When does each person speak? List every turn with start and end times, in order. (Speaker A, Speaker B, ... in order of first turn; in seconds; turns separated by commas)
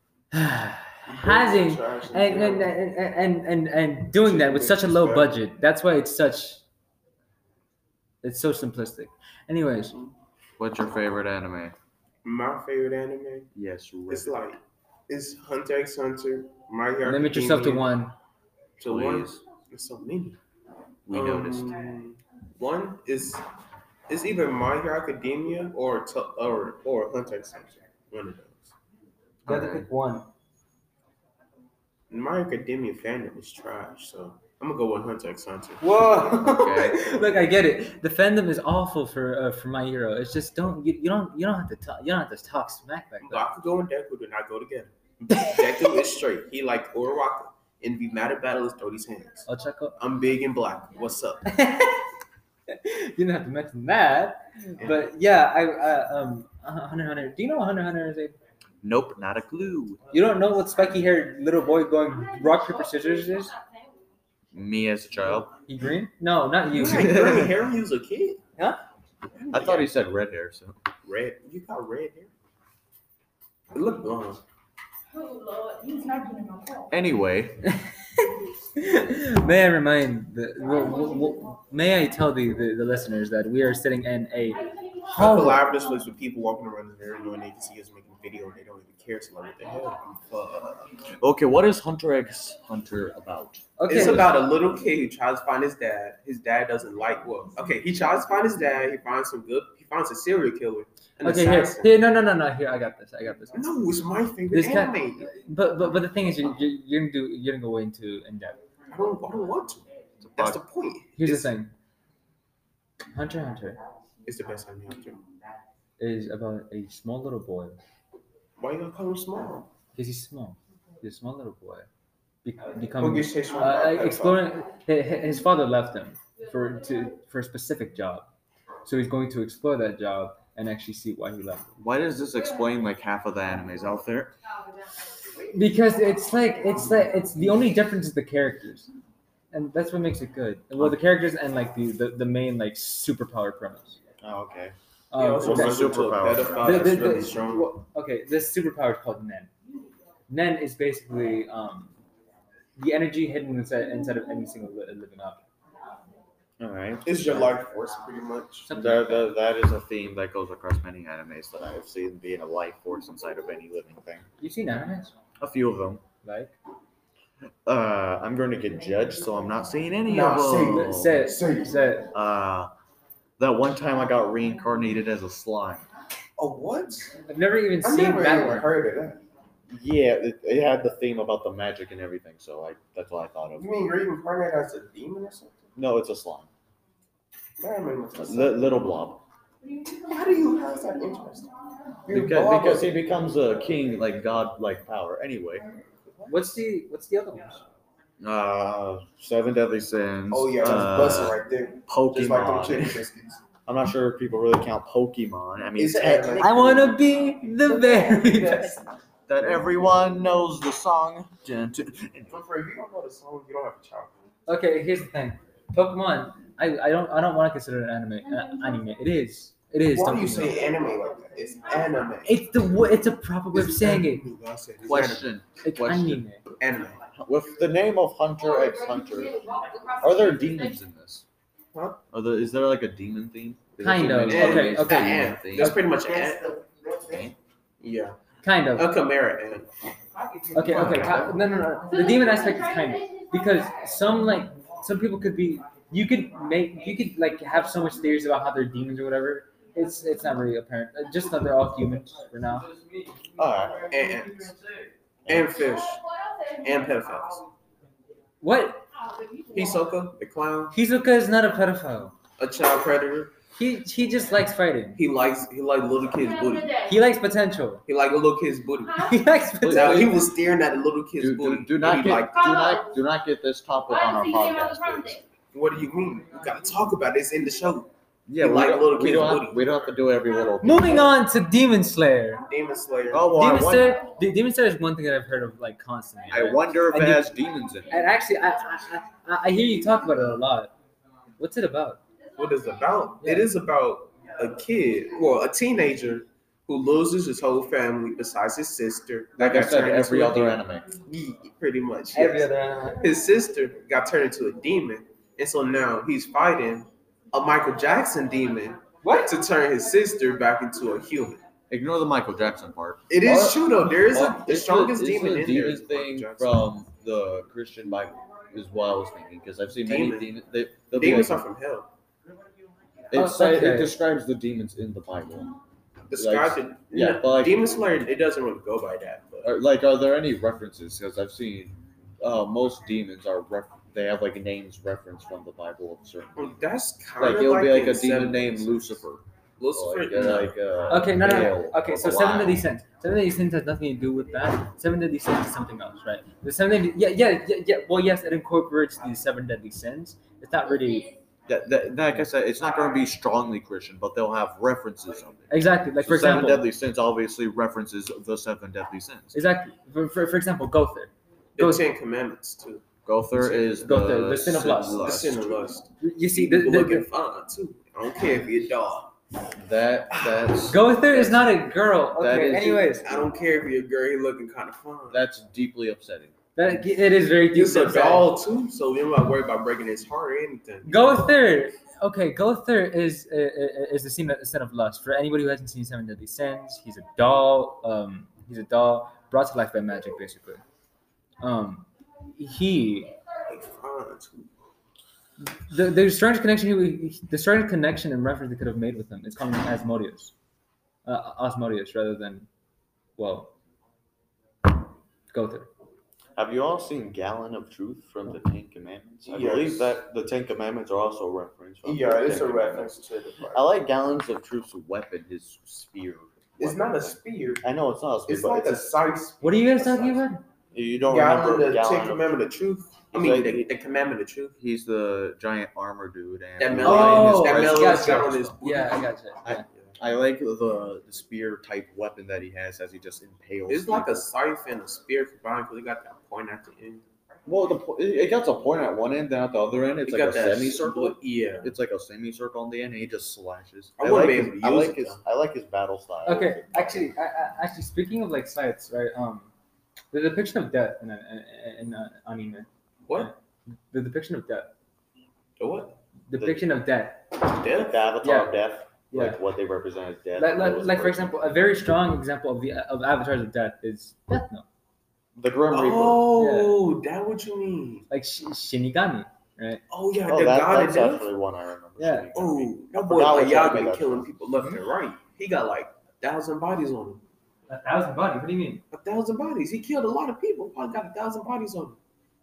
Speaker A: 0.3-6.6, Speaker B: 1.1-2.7, Speaker B: 4.2-5.3, Speaker A: 8.2-9.9, Speaker C: 10.6-11.7, Speaker B: 12.2-13.5, Speaker C: 13.5-14.4, Speaker B: 14.1-17.9, Speaker A: 17.0-18.1, Speaker B: 18.8-20.4, Speaker C: 18.8-19.4, Speaker C: 21.1-21.8, Speaker B: 21.1-23.4, Speaker B: 24.1-28.7, Speaker C: 29.4-29.9, Speaker A: 29.4-30.3, Speaker B: 32.1-36.0, Speaker A: 35.8-43.5, Speaker C: 36.5-37.0, Speaker B: 43.2-49.5, Speaker A: 45.3-45.8, Speaker A: 49.5-50.0, Speaker B: 50.0-51.4, Speaker A: 51.5-52.0, Speaker A: 52.7-58.3, Speaker B: 54.8-55.0, Speaker C: 58.8-60.1, Speaker A: 60.1-63.5, Speaker C: 64.5-65.5, Speaker A: 65.6-67.2, Speaker B: 66.7-68.4, Speaker C: 66.9-67.5, Speaker B: 69.3-69.9, Speaker C: 69.5-70.8, Speaker B: 71.0-72.3, Speaker B: 73.7-74.4, Speaker D: 75.1-76.9, Speaker C: 76.9-77.7, Speaker A: 77.7-85.6, Speaker B: 85.1-90.8, Speaker C: 90.3-94.3, Speaker A: 93.8-94.3, Speaker B: 93.9-102.0, Speaker A: 101.2-103.6, Speaker B: 103.5-105.3, Speaker A: 104.5-108.6, Speaker B: 108.9-111.5, Speaker C: 110.2-110.6, Speaker A: 111.2-111.7, Speaker A: 113.1-113.8, Speaker B: 114.2-115.2, Speaker A: 116.0-117.8, Speaker B: 118.6-119.7, Speaker A: 119.9-121.9, Speaker A: 122.4-128.3, Speaker B: 123.0-124.4, Speaker A: 128.8-131.7, Speaker C: 131.8-134.3, Speaker A: 135.5-138.9, Speaker A: 139.5-144.0, Speaker C: 144.2-144.7, Speaker A: 145.1-146.0, Speaker B: 145.1-147.7, Speaker C: 145.4-147.0, Speaker A: 146.6-149.5, Speaker A: 150.3-151.9, Speaker A: 152.8-155.4, Speaker C: 156.6-157.6, Speaker B: 157.0-158.7, Speaker A: 158.7-159.3, Speaker C: 158.7-164.3, Speaker A: 164.4-165.1, Speaker C: 165.4-166.0, Speaker A: 166.2-166.5, Speaker C: 167.7-171.2, Speaker B: 170.1-171.7, Speaker A: 170.7-172.1, Speaker C: 172.1-172.7, Speaker C: 173.4-175.8, Speaker B: 176.4-177.1, Speaker A: 177.2-178.7, Speaker B: 177.8-179.2, Speaker C: 179.7-183.8, Speaker B: 183.6-185.7, Speaker C: 185.7-186.5, Speaker B: 187.6-188.8, Speaker C: 188.2-189.2, Speaker B: 189.9-191.5, Speaker B: 192.0-193.1, Speaker C: 192.1-195.6, Speaker B: 196.1-196.6, Speaker A: 196.2-197.6, Speaker C: 198.2-203.0, Speaker B: 200.3-203.4, Speaker C: 203.7-207.0, Speaker B: 205.8-206.9, Speaker A: 206.4-208.8, Speaker B: 207.6-208.9, Speaker C: 209.3-212.3, Speaker B: 209.4-209.7, Speaker B: 212.3-214.2, Speaker A: 214.5-220.6, Speaker B: 219.9-222.3, Speaker A: 222.2-224.2, Speaker B: 223.5-225.3, Speaker C: 224.8-226.2, Speaker A: 225.6-226.4, Speaker B: 226.6-227.0, Speaker C: 227.1-229.4, Speaker D: 228.5-230.5, Speaker C: 230.0-231.2, Speaker B: 231.7-232.0, Speaker C: 232.1-235.9, Speaker A: 233.8-235.9, Speaker B: 234.3-236.6, Speaker C: 236.8-237.3, Speaker B: 237.8-238.2, Speaker A: 238.4-238.9, Speaker B: 238.8-239.7, Speaker A: 240.5-252.7, Speaker B: 240.6-241.3, Speaker C: 240.7-241.3, Speaker D: 241.9-243.6, Speaker C: 253.3-254.0, Speaker B: 253.9-254.5, Speaker B: 255.2-256.0, Speaker B: 256.6-257.4, Speaker A: 258.4-258.8, Speaker B: 259.5-260.7, Speaker A: 260.7-262.1, Speaker B: 262.4-263.3, Speaker A: 263.6-265.0, Speaker B: 265.0-266.8, Speaker D: 266.4-266.9, Speaker A: 266.8-267.8, Speaker B: 267.9-272.6, Speaker A: 268.9-270.2, Speaker C: 269.6-270.1, Speaker C: 271.2-275.2, Speaker D: 272.3-273.0, Speaker D: 273.9-275.2, Speaker B: 275.5-279.9, Speaker C: 278.3-281.2, Speaker A: 280.6-282.4, Speaker B: 282.4-283.3, Speaker C: 283.1-284.0, Speaker A: 283.3-287.3, Speaker C: 286.3-288.0, Speaker A: 287.9-290.7, Speaker A: 291.4-292.0, Speaker B: 292.4-302.5, Speaker A: 293.2-293.5, Speaker C: 299.4-300.9, Speaker A: 302.1-303.0, Speaker B: 303.0-311.4, Speaker A: 309.0-309.3, Speaker C: 311.7-321.4, Speaker B: 313.1-316.6, Speaker B: 319.8-320.3, Speaker B: 320.9-321.9, Speaker C: 323.1-325.5, Speaker A: 323.1-323.9, Speaker B: 326.1-329.5, Speaker C: 326.1-327.7, Speaker C: 329.4-336.6, Speaker B: 336.4-338.9, Speaker C: 337.2-342.7, Speaker B: 339.6-340.6, Speaker A: 340.9-351.1, Speaker C: 351.5-359.4, Speaker A: 355.5-356.7, Speaker A: 359.3-361.8, Speaker B: 361.6-362.9, Speaker C: 363.0-365.6, Speaker A: 363.8-365.0, Speaker B: 364.9-369.1, Speaker A: 366.0-367.1, Speaker C: 369.6-373.0, Speaker B: 370.2-370.4, Speaker A: 370.7-373.2, Speaker B: 373.0-375.2, Speaker C: 375.1-376.4, Speaker A: 376.5-378.3, Speaker B: 377.5-381.1, Speaker A: 380.8-390.6, Speaker A: 391.4-393.1, Speaker B: 393.5-394.5, Speaker A: 395.4-400.3, Speaker A: 401.0-402.5, Speaker A: 403.2-403.5, Speaker A: 405.3-405.7, Speaker C: 406.4-412.9, Speaker B: 409.2-410.0, Speaker B: 411.8-413.6, Speaker C: 413.5-418.9, Speaker B: 416.6-417.6, Speaker B: 418.3-420.2, Speaker A: 419.4-420.4, Speaker C: 420.7-422.3, Speaker B: 421.1-424.6, Speaker C: 423.1-423.6, Speaker C: 424.6-428.6, Speaker B: 426.6-429.1, Speaker A: 426.8-429.6, Speaker C: 429.4-434.3, Speaker B: 433.7-437.1, Speaker C: 437.4-447.1, Speaker B: 440.1-441.7, Speaker B: 444.0-445.2, Speaker A: 446.2-449.5, Speaker A: 450.1-453.4, Speaker A: 453.9-454.7, Speaker B: 455.6-456.0, Speaker A: 456.3-457.4, Speaker C: 456.3-456.6, Speaker B: 457.4-458.0, Speaker C: 457.7-461.3, Speaker A: 458.2-458.5, Speaker A: 459.1-459.4, Speaker A: 460.4-464.6, Speaker C: 465.4-466.3, Speaker B: 465.7-468.0, Speaker A: 466.3-466.8, Speaker A: 468.1-469.8, Speaker B: 469.9-471.2, Speaker C: 470.2-474.3, Speaker A: 472.0-472.3, Speaker B: 472.3-477.2, Speaker A: 477.7-478.8, Speaker B: 478.9-482.0